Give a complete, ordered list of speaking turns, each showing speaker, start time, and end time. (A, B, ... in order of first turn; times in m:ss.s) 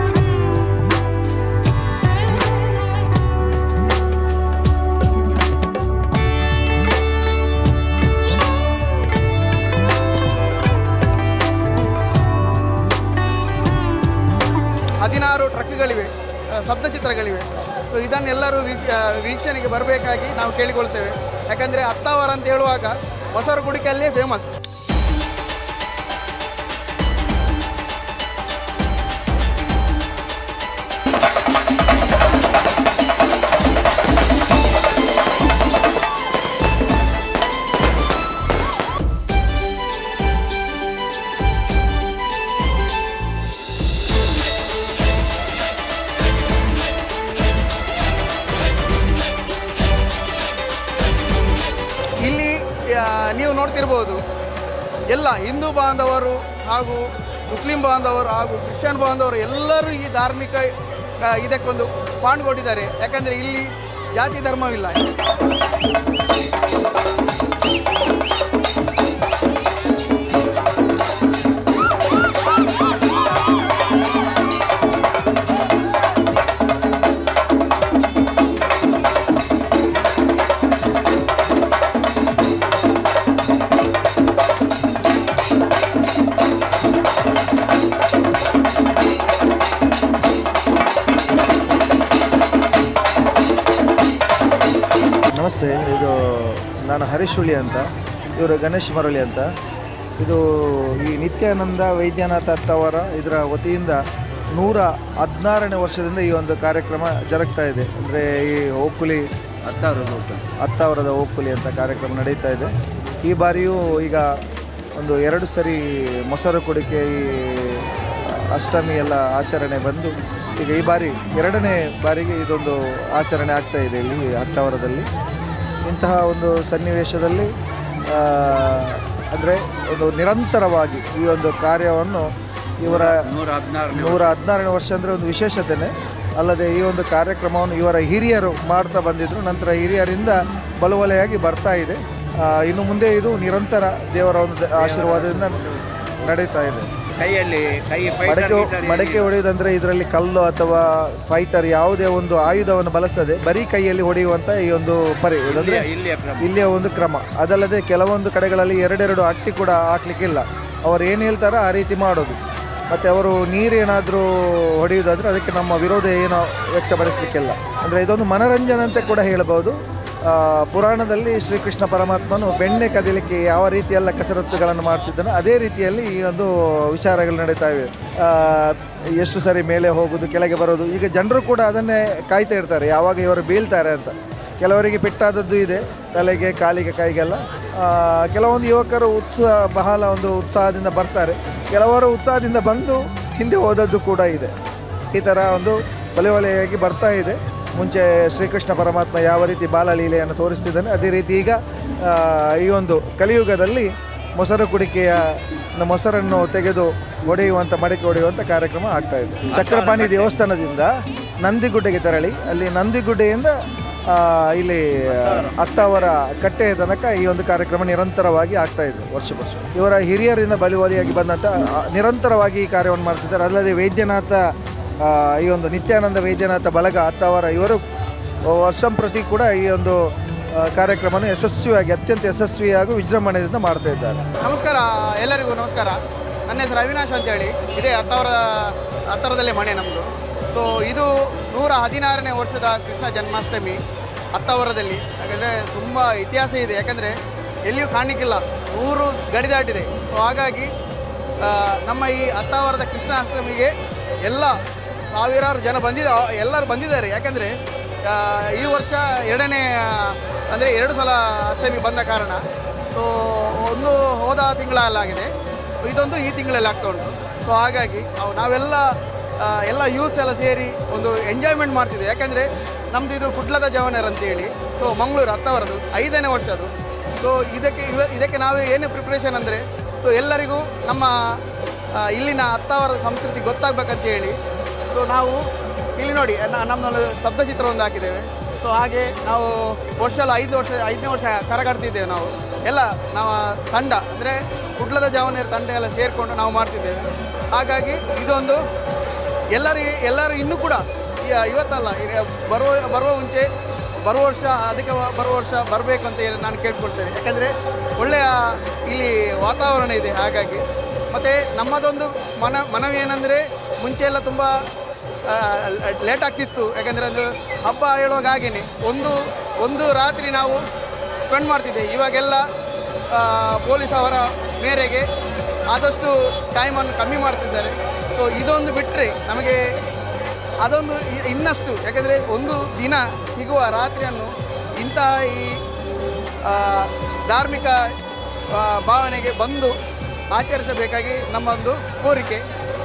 0:15.0-0:24.5 A
0:52.2-0:54.2 A
0:55.1-1:05.0 A
1:35.3-1:39.5 B
1:40.2-1:44.0 B
1:44.5-1:49.2 B
1:49.6-1:50.4 C
1:49.9-1:52.7 B
1:53.2-1:54.3 B
1:55.0-2:05.1 B
2:05.8-2:07.5 B
2:08.0-2:13.3 B
2:12.8-2:14.3 C
2:13.9-2:25.6 B
2:24.8-2:25.8 C
2:26.2-2:26.9 B
2:27.2-2:29.3 C
2:28.2-2:42.4 B
2:35.5-2:36.5 C
2:42.9-3:14.5 B
3:15.1-3:47.8 B
3:29.5-3:30.4 C
3:35.2-3:35.6 C
3:48.5-3:54.2 B
3:54.4-4:10.7 A
4:11.4-4:58.6 A
4:59.5-5:14.7 A
5:15.2-5:20.7 A
5:21.2-5:22.5 A
5:23.1-5:25.1 A
5:25.7-5:29.8 A
5:30.6-5:35.6 A
5:36.4-5:38.0 A
5:38.5-5:39.8 A
5:40.3-5:42.4 A